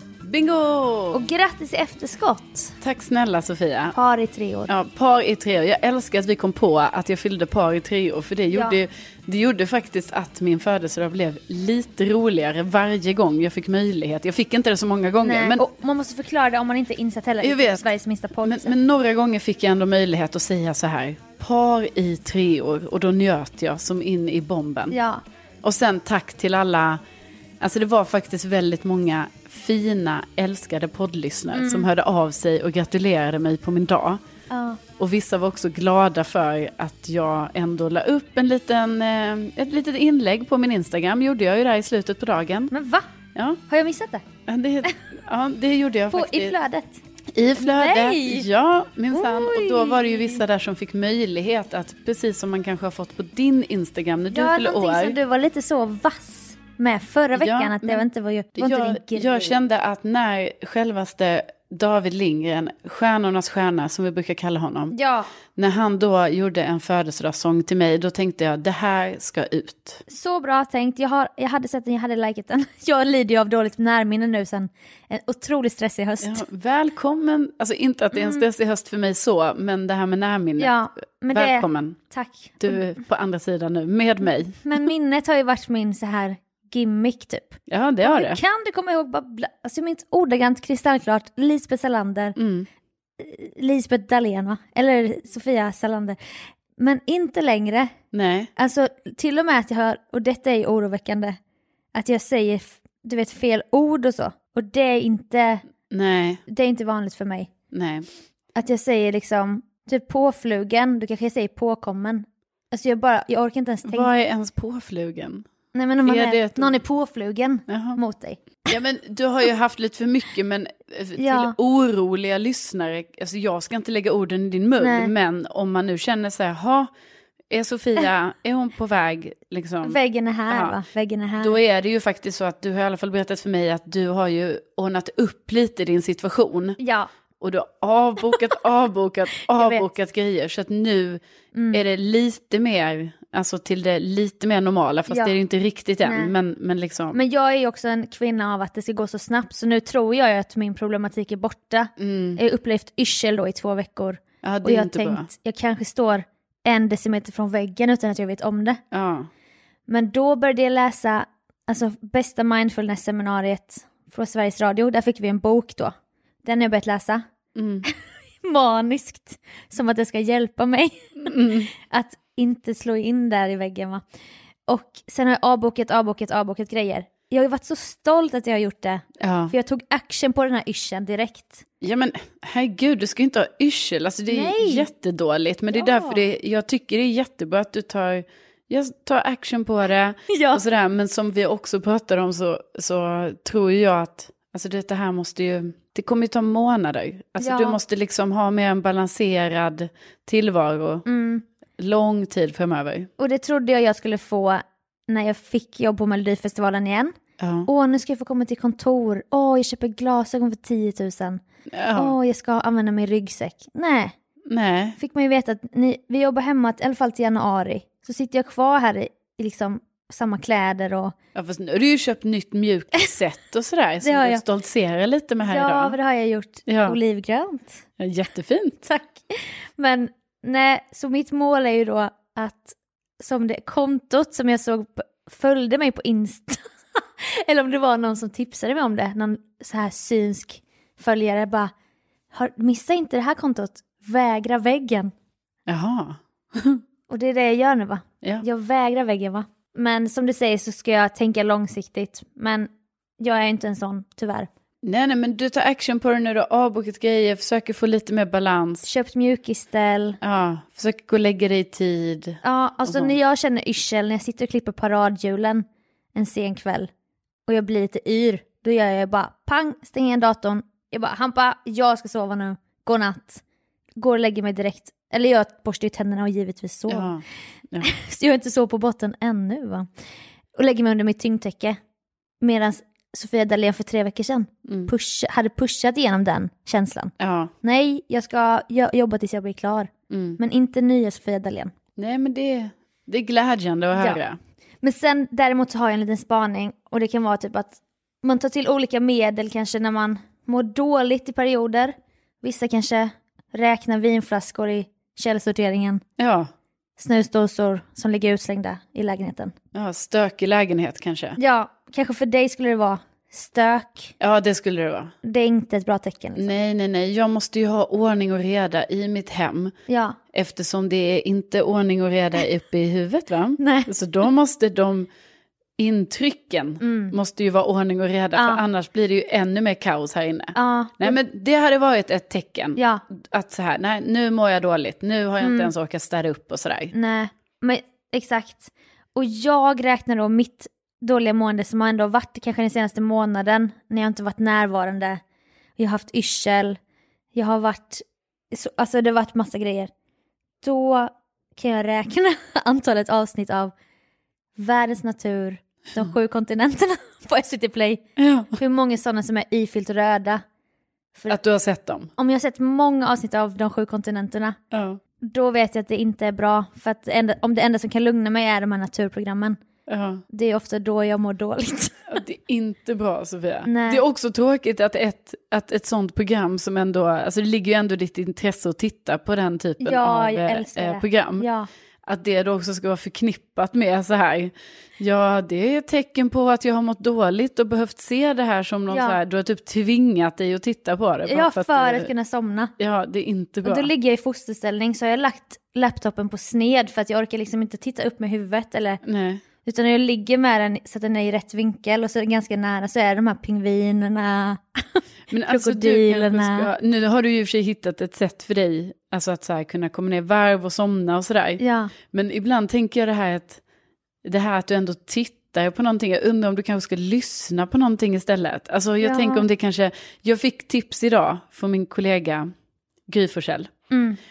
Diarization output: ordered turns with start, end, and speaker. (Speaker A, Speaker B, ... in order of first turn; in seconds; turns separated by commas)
Speaker A: 0.2-1.2, Speaker B: 1.1-2.7, Speaker A: 2.8-3.9, Speaker B: 3.9-4.7, Speaker A: 4.7-15.6, Speaker B: 8.5-8.8, Speaker B: 15.2-18.7, Speaker A: 17.4-17.9, Speaker A: 18.4-25.0, Speaker B: 24.9-25.2, Speaker A: 25.6-27.0, Speaker A: 27.6-34.2, Speaker B: 31.5-31.9, Speaker B: 34.5-34.8, Speaker A: 35.0-42.7, Speaker B: 42.7-43.1, Speaker A: 43.3-43.6, Speaker B: 43.7-44.2, Speaker A: 44.5-46.5, Speaker B: 46.1-47.0, Speaker A: 47.3-55.2, Speaker B: 47.6-48.5, Speaker B: 49.1-50.4, Speaker B: 54.3-59.5, Speaker A: 57.4-58.0, Speaker A: 58.5-64.9, Speaker B: 64.9-65.3, Speaker A: 65.5-70.0, Speaker B: 70.1-76.4, Speaker A: 76.2-80.7, Speaker B: 78.1-78.4, Speaker B: 80.6-83.0, Speaker A: 81.3-82.0, Speaker A: 82.6-84.6, Speaker B: 84.6-92.3, Speaker A: 87.7-88.4, Speaker A: 92.3-92.7, Speaker B: 93.2-96.2, Speaker B: 96.8-97.9, Speaker A: 98.1-98.5, Speaker B: 98.5-101.4, Speaker B: 101.9-105.7, Speaker A: 105.9-106.4, Speaker B: 106.5-107.5, Speaker A: 107.7-108.1, Speaker B: 108.5-114.1, Speaker A: 113.9-115.4, Speaker B: 115.7-118.4, Speaker A: 116.0-116.8, Speaker A: 117.7-118.0, Speaker A: 118.7-126.9, Speaker B: 121.2-121.5, Speaker B: 124.8-125.1, Speaker A: 127.5-130.0, Speaker B: 129.8-131.6, Speaker A: 130.5-130.8, Speaker A: 131.4-136.8, Speaker B: 136.8-137.1, Speaker A: 137.4-141.2, Speaker B: 139.4-139.8, Speaker B: 141.5-141.8, Speaker A: 141.7-147.2, Speaker B: 145.1-145.3, Speaker B: 146.0-146.3, Speaker B: 147.1-158.8, Speaker A: 152.0-152.4, Speaker A: 154.4-155.3, Speaker A: 158.9-159.3, Speaker B: 159.9-167.2, Speaker A: 167.6-167.8, Speaker B: 168.4-174.0, Speaker A: 171.2-171.7, Speaker B: 174.7-181.6, Speaker A: 179.2-179.5, Speaker A: 181.8-201.1, Speaker B: 184.3-184.8, Speaker B: 185.7-186.2, Speaker B: 190.3-190.6, Speaker B: 197.4-197.8, Speaker B: 201.1-201.4, Speaker A: 201.8-203.1, Speaker B: 203.2-207.1, Speaker A: 207.4-207.7, Speaker B: 207.7-211.4, Speaker A: 211.7-212.1, Speaker B: 211.9-214.1, Speaker A: 214.5-215.0, Speaker B: 215.0-221.1, Speaker A: 221.3-226.0, Speaker B: 224.0-224.4, Speaker B: 225.4-227.8, Speaker A: 226.7-227.0, Speaker A: 228.0-228.8, Speaker B: 228.8-241.7, Speaker B: 242.3-245.1, Speaker A: 245.7-246.8, Speaker B: 247.1-254.5, Speaker A: 254.8-258.9, Speaker B: 258.8-260.2, Speaker A: 260.2-263.1, Speaker B: 262.4-266.9, Speaker B: 267.5-273.4, Speaker B: 274.0-277.1, Speaker A: 276.9-277.9, Speaker B: 277.8-279.9, Speaker B: 280.5-281.8, Speaker B: 282.4-291.7, Speaker A: 284.6-284.9, Speaker A: 287.2-287.5, Speaker A: 290.1-290.4, Speaker A: 292.0-294.4, Speaker B: 294.8-306.0, Speaker A: 306.2-306.5, Speaker B: 307.0-309.5, Speaker A: 309.7-311.4, Speaker B: 311.4-314.1, Speaker A: 314.2-315.1, Speaker B: 315.2-316.5, Speaker A: 316.4-319.7, Speaker B: 319.9-320.2, Speaker A: 320.3-325.1, Speaker B: 323.6-323.9, Speaker A: 325.8-336.9, Speaker B: 326.8-327.1, Speaker B: 328.4-328.6, Speaker B: 330.5-331.2, Speaker B: 332.8-333.0, Speaker B: 335.4-335.7, Speaker B: 336.9-345.2, Speaker B: 345.8-346.8, Speaker B: 347.3-349.9, Speaker B: 350.6-353.7, Speaker B: 354.6-358.0, Speaker A: 358.2-358.5, Speaker B: 358.6-360.4, Speaker A: 361.3-362.1, Speaker B: 362.2-364.6, Speaker A: 364.7-365.0, Speaker B: 365.2-369.6, Speaker A: 369.9-370.2, Speaker B: 370.3-372.1, Speaker A: 372.1-381.5, Speaker B: 373.6-374.0, Speaker B: 379.8-381.7, Speaker A: 382.1-392.1, Speaker B: 388.9-389.2, Speaker B: 391.2-392.7, Speaker A: 392.8-393.9, Speaker B: 393.6-399.0, Speaker A: 399.0-399.4, Speaker B: 399.6-406.7, Speaker A: 405.3-413.6, Speaker B: 411.6-411.9, Speaker A: 414.2-422.5, Speaker B: 419.0-419.4, Speaker A: 423.1-423.7, Speaker B: 423.9-424.2